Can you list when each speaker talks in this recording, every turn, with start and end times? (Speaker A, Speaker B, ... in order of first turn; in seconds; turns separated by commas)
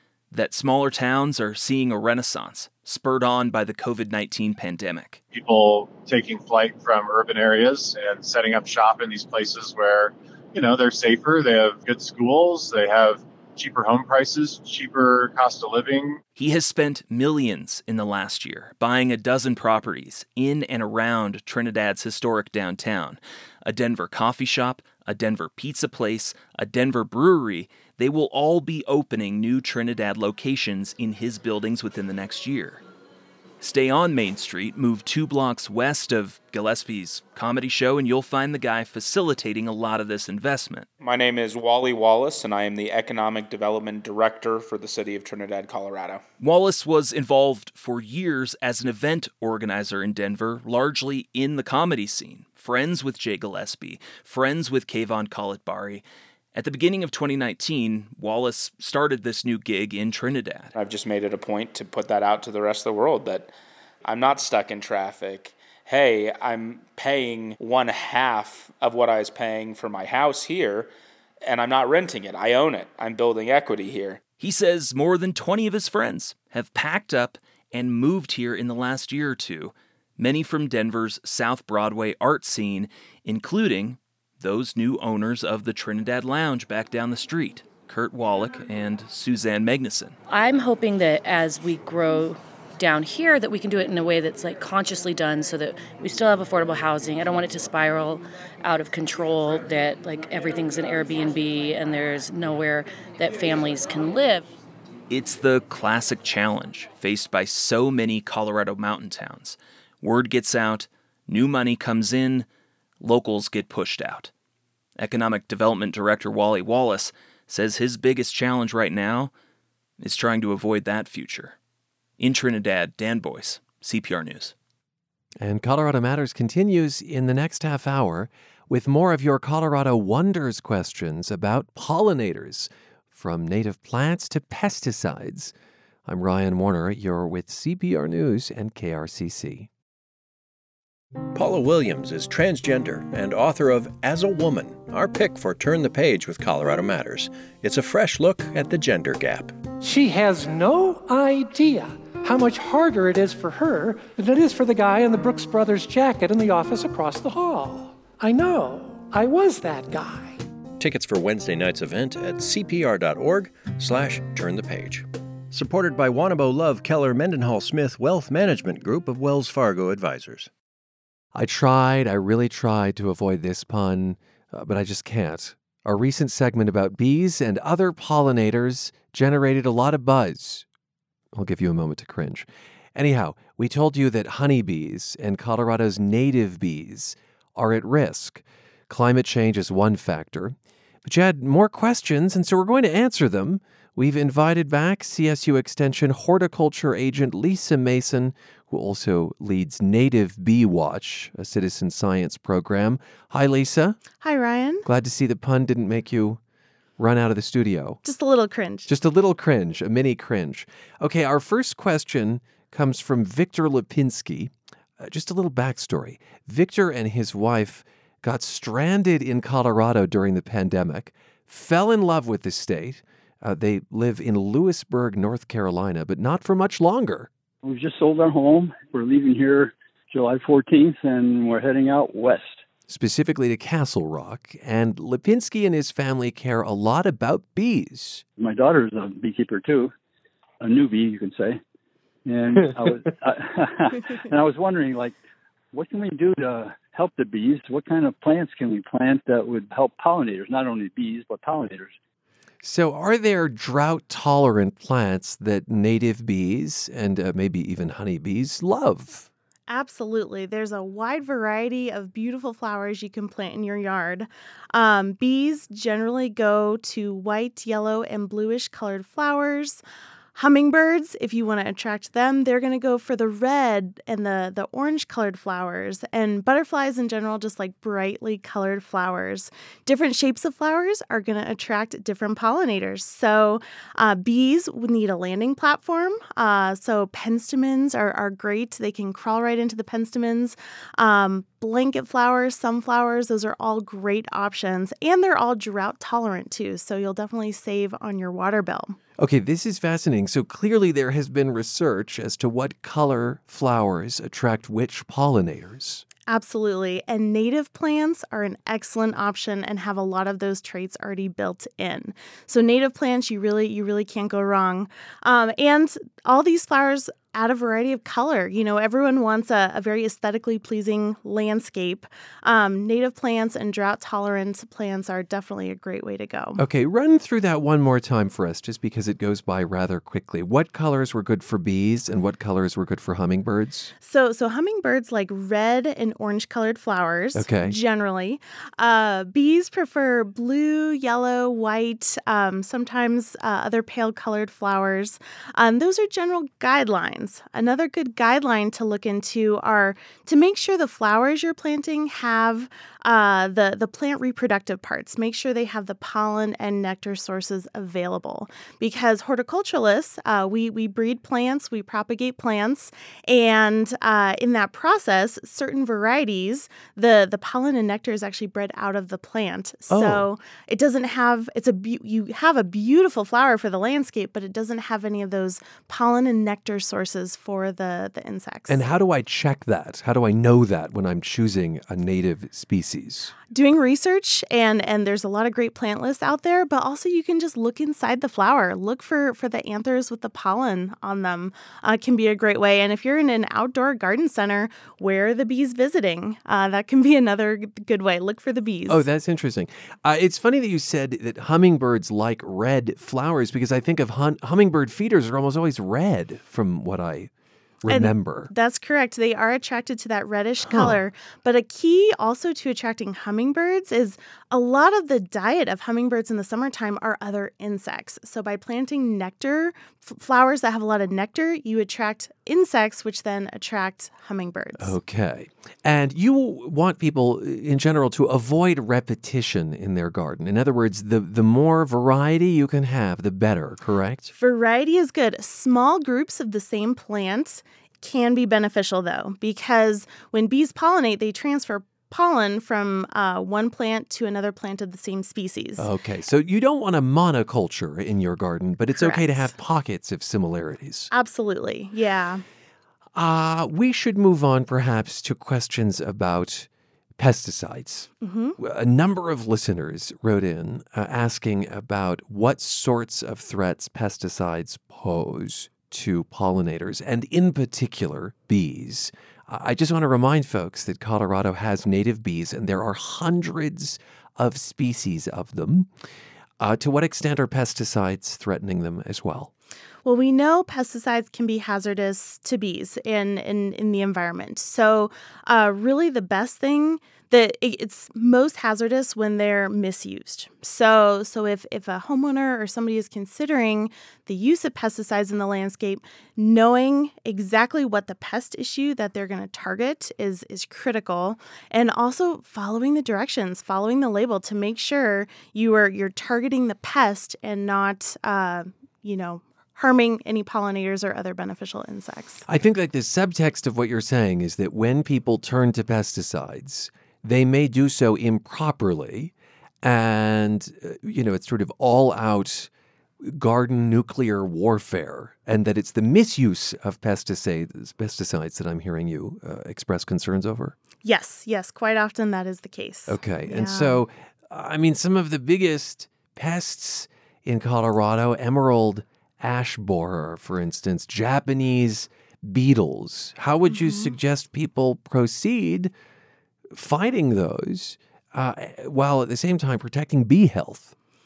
Speaker A: 0.3-5.2, Speaker B: 5.3-16.2, Speaker A: 16.4-32.8, Speaker A: 33.6-40.9, Speaker C: 41.0-46.2, Speaker A: 46.4-60.8, Speaker C: 60.8-63.5, Speaker C: 64.0-70.9, Speaker C: 71.5-74.2, Speaker A: 74.4-90.2, Speaker D: 90.3-104.5, Speaker A: 105.1-112.5, Speaker A: 113.0-114.3, Speaker A: 115.0-119.3, Speaker A: 120.0-121.6, Speaker A: 122.2-124.5, Speaker E: 125.4-135.5, Speaker E: 136.1-139.7, Speaker F: 141.3-149.6, Speaker G: 149.8-160.4, Speaker F: 160.8-170.5, Speaker E: 171.3-180.7, Speaker E: 181.3-204.0, Speaker H: 204.1-204.8, Speaker E: 204.8-206.4, Speaker E: 207.0-208.0, Speaker H: 208.1-208.9, Speaker E: 208.9-227.3, Speaker I: 227.6-232.6, Speaker E: 232.9-238.2, Speaker I: 238.4-239.9, Speaker I: 240.6-241.6, Speaker I: 242.3-245.2, Speaker I: 245.7-251.9, Speaker E: 252.6-259.3, Speaker H: 259.7-269.8, Speaker H: 270.4-299.0, Speaker E: 299.2-306.1, Speaker H: 306.3-326.6, Speaker E: 326.6-333.9, Speaker H: 334.0-378.8, Speaker E: 337.3-337.8, Speaker E: 369.9-370.3, Speaker E: 378.7-383.3, Speaker H: 383.5-399.0, Speaker E: 398.9-407.3, Speaker E: 407.8-408.5, Speaker H: 407.9-424.9, Speaker E: 410.6-411.0, Speaker E: 424.8-434.3, Speaker H: 434.4-445.9, Speaker E: 445.8-451.1, Speaker H: 448.9-449.5, Speaker H: 451.1-452.4, Speaker E: 453.1-475.9, Speaker H: 458.2-458.6, Speaker E: 476.6-479.5, Speaker H: 480.0-512.4, Speaker E: 512.5-522.7, Speaker E: 523.2-530.8, Speaker H: 531.0-534.0, Speaker E: 533.1-545.9, Speaker H: 543.7-544.1, Speaker E: 546.7-550.9